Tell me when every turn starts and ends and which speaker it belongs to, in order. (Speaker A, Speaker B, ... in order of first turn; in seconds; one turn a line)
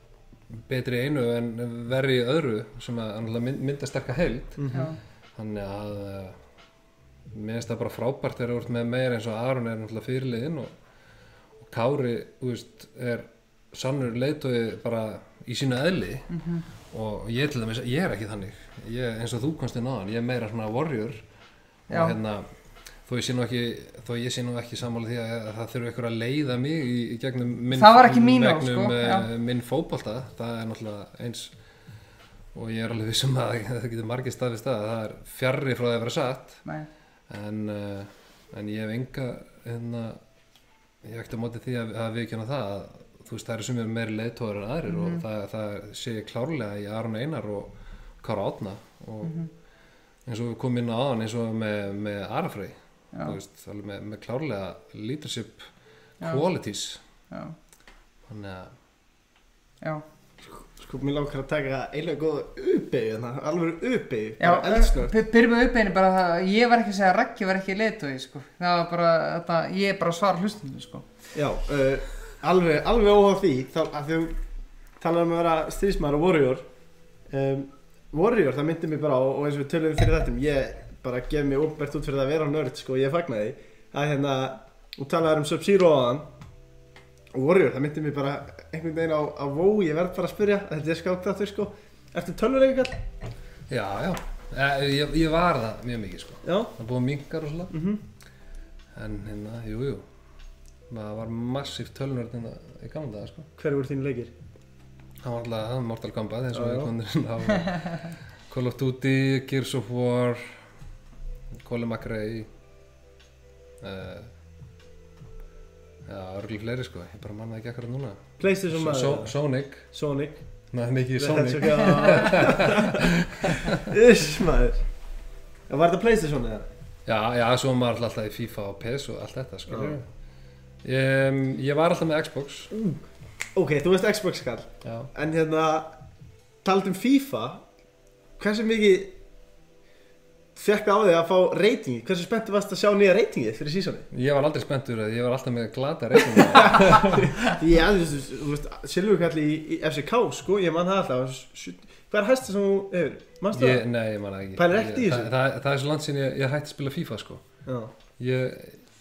Speaker A: 0.5-4.7
Speaker B: 4.6-4.9
Speaker C: 4.7-5.0
Speaker A: 5.3-6.4
Speaker A: 7.3-10.7
Speaker A: 11.6-16.3
Speaker C: 16.3-16.6
Speaker A: 16.9-21.2
Speaker C: 21.9-22.2
Speaker A: 21.9-22.4
Speaker A: 23.1-31.5
Speaker C: 27.7-29.3
Speaker A: 32.5-36.6
Speaker A: 37.3-40.2
Speaker A: 41.0-49.3
Speaker C: 44.9-45.2
Speaker C: 49.2-49.5
Speaker A: 50.2-55.7
Speaker A: 56.2-57.0
Speaker C: 57.3-57.5
Speaker A: 58.3-58.7
Speaker B: 60.6-65.1
Speaker C: 64.4-71.0
Speaker B: 71.3-74.3
Speaker B: 75.0-76.7
Speaker B: 77.3-86.3
Speaker B: 87.3-93.0
Speaker A: 93.7-97.7
Speaker B: 96.4-96.7
Speaker B: 97.7-98.0
Speaker A: 98.9-100.0
Speaker A: 100.9-103.5
Speaker B: 103.6-104.3
Speaker A: 105.2-110.5
Speaker B: 106.5-106.9
Speaker A: 111.6-112.5
Speaker A: 113.8-114.3
Speaker A: 116.1-118.2
Speaker B: 118.4-119.3
Speaker A: 118.7-119.9
Speaker B: 119.9-120.4
Speaker A: 120.7-123.9
Speaker B: 121.2-124.8
Speaker B: 125.7-126.7
Speaker A: 127.0-130.1
Speaker B: 129.7-129.9
Speaker A: 130.8-132.7
Speaker B: 132.7-133.0
Speaker B: 133.5-135.9
Speaker A: 134.8-135.1
Speaker B: 136.6-137.6
Speaker B: 138.4-139.1
Speaker B: 140.6-144.1
Speaker A: 144.1-147.3
Speaker B: 146.5-153.8
Speaker A: 153.5-157.4
Speaker B: 154.6-155.3
Speaker B: 157.7-157.9
Speaker A: 158.2-158.8